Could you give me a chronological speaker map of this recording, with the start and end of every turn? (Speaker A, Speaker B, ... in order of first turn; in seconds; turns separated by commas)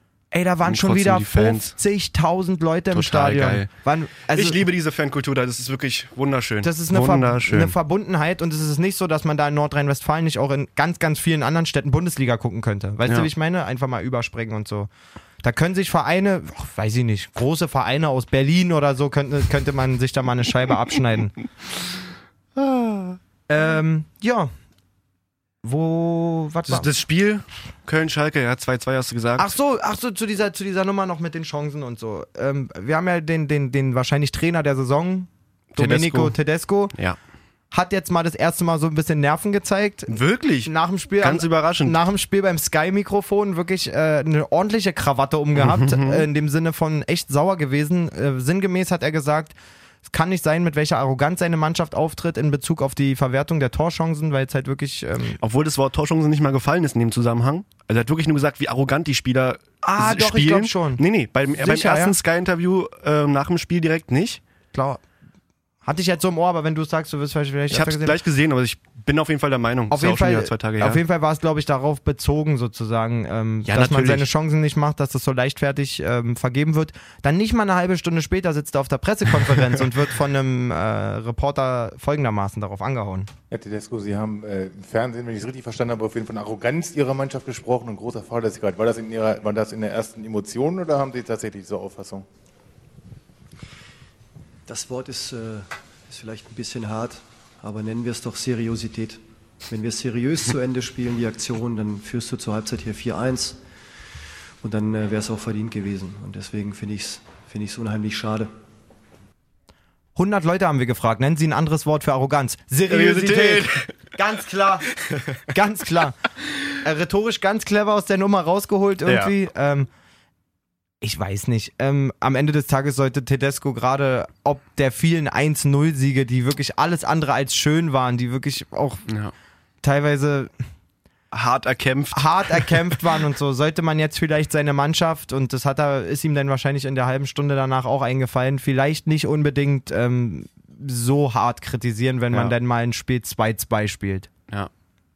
Speaker A: 0.3-4.6, Speaker B: 0.6-1.8, Speaker B: 2.9-3.7, Speaker B: 4.3-7.8, Speaker A: 6.6-14.9, Speaker A: 15.4-21.4, Speaker B: 22.6-23.2, Speaker A: 23.5-24.5, Speaker A: 25.6-26.9, Speaker B: 26.7-29.6, Speaker A: 29.4-36.9, Speaker B: 35.7-36.4, Speaker A: 37.7-55.4, Speaker B: 40.1-42.0, Speaker B: 45.5-46.3, Speaker B: 55.4-64.4, Speaker A: 59.8-61.0, Speaker A: 61.6-62.2, Speaker A: 64.7-65.0, Speaker A: 65.8-68.2, Speaker B: 67.7-71.0, Speaker A: 69.9-83.3, Speaker B: 73.7-74.3, Speaker C: 83.5-92.2, Speaker D: 94.7-103.6, Speaker D: 104.6-108.5, Speaker A: 110.2-114.9, Speaker B: 112.9-114.0, Speaker B: 115.1-115.4, Speaker A: 115.5-116.2, Speaker A: 116.8-119.9, Speaker B: 119.1-119.3, Speaker A: 121.0-129.1, Speaker B: 129.1-129.3, Speaker A: 129.8-130.5, Speaker B: 131.3-132.9, Speaker A: 132.1-144.3